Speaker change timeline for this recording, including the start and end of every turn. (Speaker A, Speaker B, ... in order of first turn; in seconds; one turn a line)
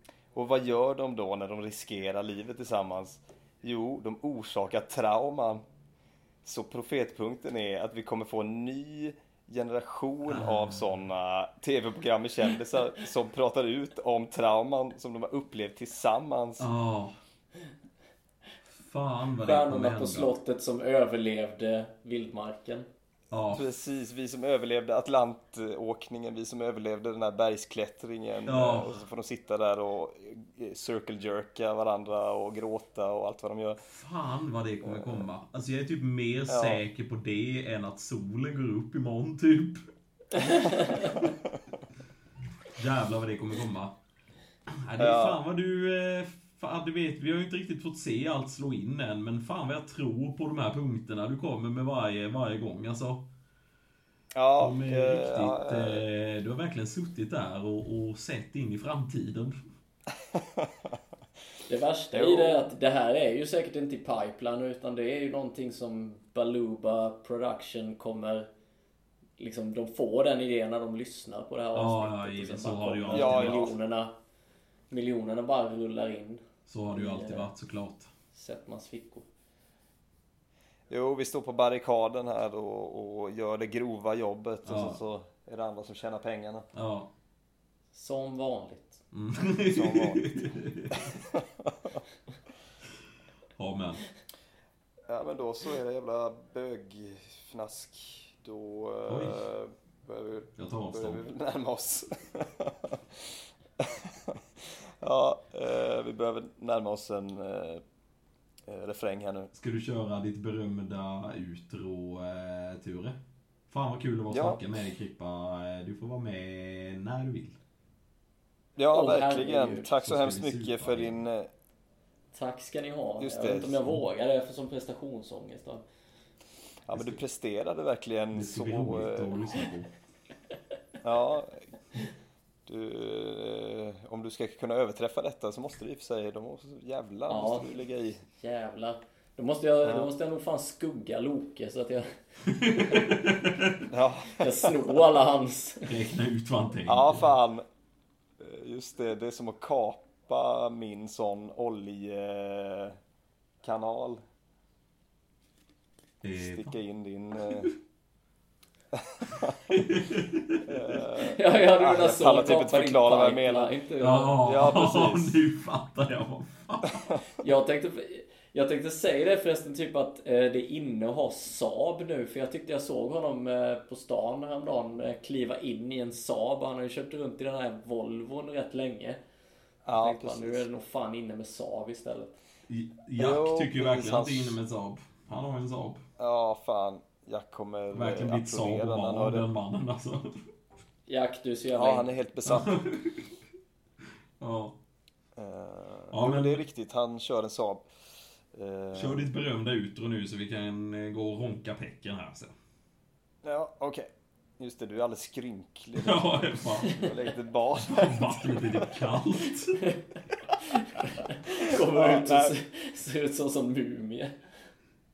Speaker A: 0.3-5.6
Speaker A: 6.4-16.7
Speaker B: 10.2-10.9
Speaker B: 16.6-17.2
Speaker B: 18.7-20.3
Speaker C: 19.4-22.9
Speaker B: 23.3-23.6
Speaker A: 23.5-33.8
Speaker B: 28.4-29.0
Speaker B: 33.9-39.9
Speaker A: 34.8-35.2
Speaker A: 36.5-36.8
Speaker C: 40.3-41.2
Speaker B: 42.7-43.9
Speaker B: 44.7-53.2
Speaker A: 45.0-45.4
Speaker A: 54.3-56.0
Speaker B: 54.6-59.6
Speaker A: 60.1-60.9
Speaker C: 61.6-68.5
Speaker A: 62.1-62.7
Speaker C: 69.4-74.1
Speaker B: 71.7-73.7
Speaker A: 73.1-73.7
Speaker C: 74.9-77.5
Speaker B: 76.7-78.1
Speaker C: 78.3-79.2
Speaker A: 80.9-86.7
Speaker B: 84.7-85.0
Speaker B: 86.7-87.1
Speaker C: 87.9-89.0
Speaker B: 89.1-91.2
Speaker A: 89.7-90.4
Speaker A: 91.0-92.0
Speaker B: 93.6-94.0
Speaker A: 95.1-103.2
Speaker B: 99.1-99.4
Speaker B: 100.6-101.2
Speaker A: 103.8-107.8
Speaker A: 108.7-109.5
Speaker B: 109.5-113.2
Speaker B: 113.7-117.6
Speaker A: 114.3-114.6
Speaker A: 118.8-121.5
Speaker C: 118.9-119.9
Speaker B: 120.0-121.2
Speaker C: 122.3-125.8
Speaker A: 123.2-123.8
Speaker A: 126.8-129.5
Speaker B: 126.9-127.2
Speaker B: 128.3-129.9
Speaker A: 131.0-131.6
Speaker A: 132.7-138.2
Speaker C: 137.3-137.7
Speaker C: 138.3-142.2
Speaker A: 139.8-140.1
Speaker B: 142.4-143.8
Speaker C: 142.7-143.1
Speaker A: 143.9-144.8
Speaker C: 144.3-145.9
Speaker B: 145.9-147.3
Speaker A: 146.9-147.6
Speaker A: 148.4-153.0
Speaker A: 153.6-154.2
Speaker B: 156.2-156.8
Speaker A: 156.3-157.7
Speaker B: 157.4-157.7
Speaker A: 158.9-159.6
Speaker B: 159.7-160.7
Speaker A: 160.7-163.7
Speaker C: 161.3-164.4
Speaker B: 164.0-167.2
Speaker A: 164.4-165.3
Speaker C: 167.4-179.2
Speaker A: 179.8-180.6
Speaker C: 179.9-182.4
Speaker B: 182.7-186.0
Speaker A: 183.2-184.6
Speaker A: 186.2-189.4
Speaker B: 187.9-190.4
Speaker C: 191.1-192.1
Speaker A: 191.7-192.7
Speaker B: 192.4-193.3
Speaker B: 194.4-194.8
Speaker A: 195.4-197.9
Speaker B: 196.1-196.6
Speaker A: 198.5-199.3
Speaker B: 198.9-202.5
Speaker A: 203.4-204.1
Speaker A: 204.6-208.9
Speaker B: 205.9-207.0
Speaker C: 206.8-207.1
Speaker B: 207.8-209.8
Speaker C: 210.7-214.3
Speaker A: 211.6-212.5